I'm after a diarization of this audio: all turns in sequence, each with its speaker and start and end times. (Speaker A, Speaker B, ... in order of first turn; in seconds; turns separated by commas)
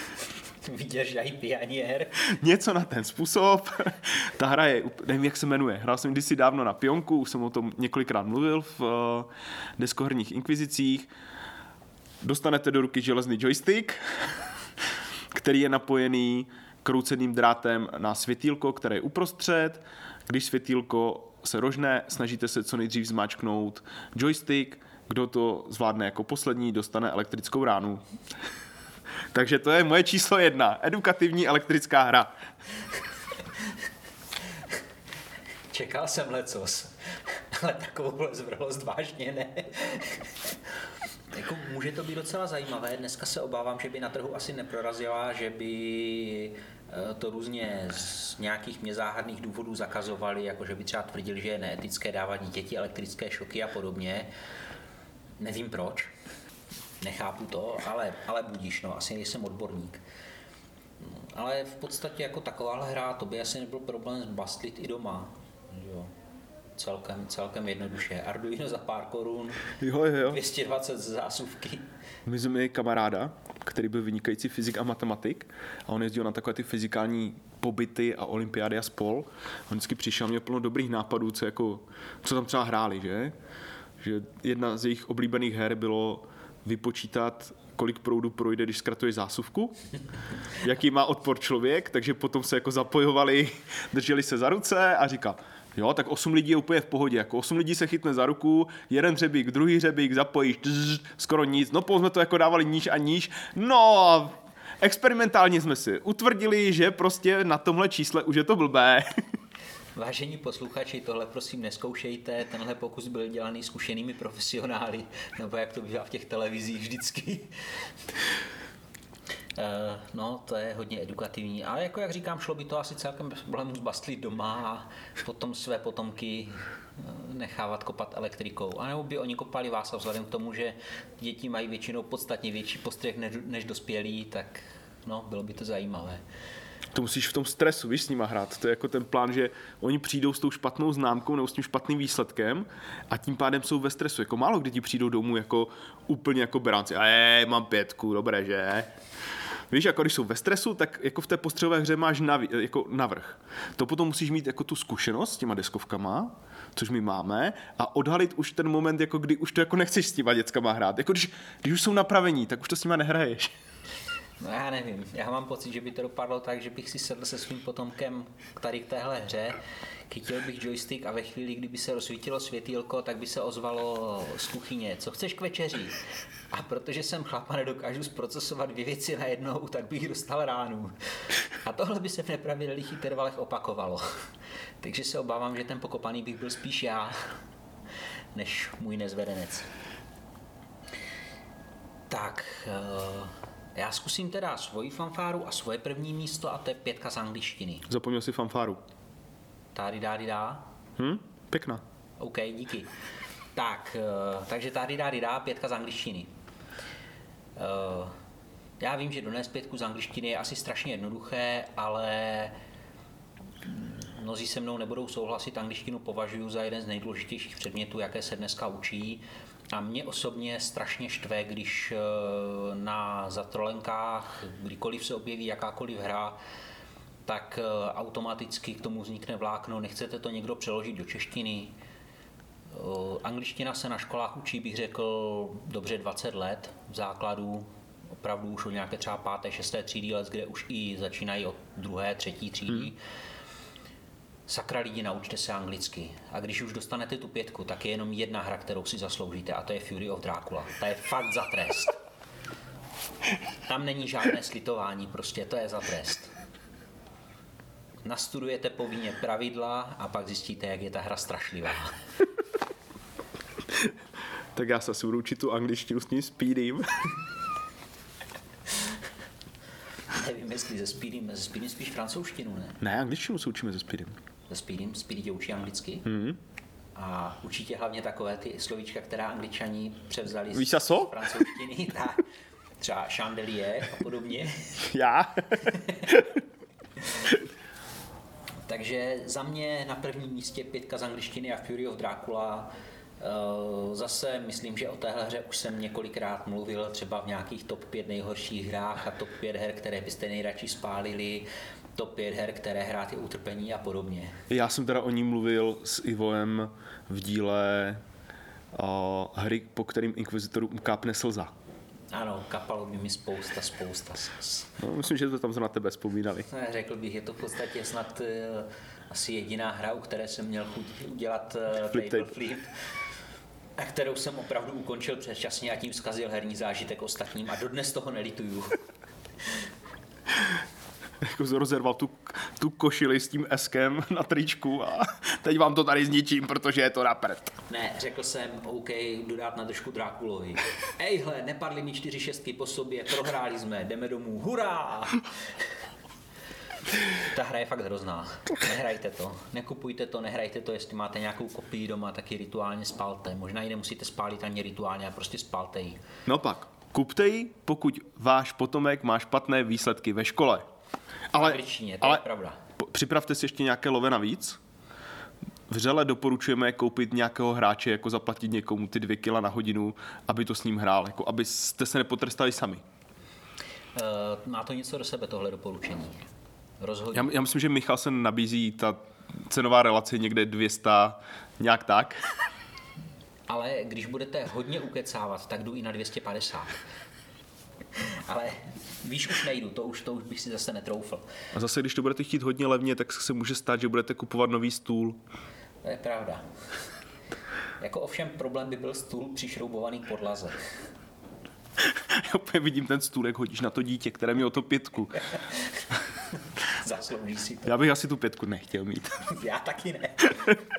Speaker A: 0.6-2.3, Speaker B: 2.2-11.1, Speaker B: 12.2-14.0, Speaker B: 15.3-28.0, Speaker B: 29.3-32.3, Speaker A: 35.7-40.3, Speaker A: 41.3-54.3, Speaker A: 55.4-56.1, Speaker A: 57.0-60.0, Speaker A: 61.0-66.1, Speaker A: 66.8-71.9, Speaker B: 69.8-70.4, Speaker B: 72.2-83.3, Speaker B: 84.0-89.8, Speaker B: 90.6-109.1, Speaker A: 110.0-117.5, Speaker A: 119.5-136.2, Speaker B: 136.9-148.9, Speaker B: 149.7-163.5, Speaker A: 164.4-176.0, Speaker A: 176.5-180.9, Speaker A: 181.5-184.2, Speaker A: 184.8-187.4, Speaker A: 188.3-189.7, Speaker A: 192.1-197.9, Speaker B: 197.9-198.8, Speaker A: 199.7-200.7, Speaker B: 201.0-201.8, Speaker A: 202.2-202.9, Speaker A: 203.5-206.3, Speaker A: 207.6-208.2, Speaker A: 208.8-212.6, Speaker A: 213.6-226.4, Speaker A: 227.2-231.8, Speaker A: 232.7-243.0, Speaker A: 244.5-252.0, Speaker A: 253.7-256.3, Speaker A: 258.0-262.0, Speaker B: 264.5-267.0, Speaker A: 270.1-272.8, Speaker B: 272.8-274.1, Speaker A: 274.5-276.1, Speaker B: 276.0-276.4, Speaker A: 276.9-282.2, Speaker B: 280.5-281.4, Speaker A: 282.8-284.8, Speaker B: 284.8-286.4, Speaker A: 285.6-286.1, Speaker A: 288.7-304.4, Speaker B: 304.5-308.0, Speaker B: 308.7-311.5, Speaker A: 312.1-314.8, Speaker B: 314.8-316.5, Speaker A: 316.5-322.7, Speaker B: 321.9-322.3, Speaker A: 323.8-328.8, Speaker B: 331.2-337.6, Speaker A: 337.7-345.6, Speaker A: 347.1-356.0, Speaker B: 356.2-360.7, Speaker B: 361.3-362.2, Speaker A: 361.3-362.6, Speaker B: 362.8-364.6, Speaker B: 365.7-372.8, Speaker A: 373.9-376.2, Speaker A: 376.8-377.3, Speaker B: 377.1-382.3, Speaker A: 383.5-386.8, Speaker A: 387.9-391.2, Speaker B: 391.5-395.2, Speaker A: 395.8-396.4, Speaker A: 397.8-400.7, Speaker B: 401.8-405.2, Speaker A: 405.2-406.0, Speaker A: 406.6-407.8, Speaker B: 407.6-409.2, Speaker A: 409.2-410.6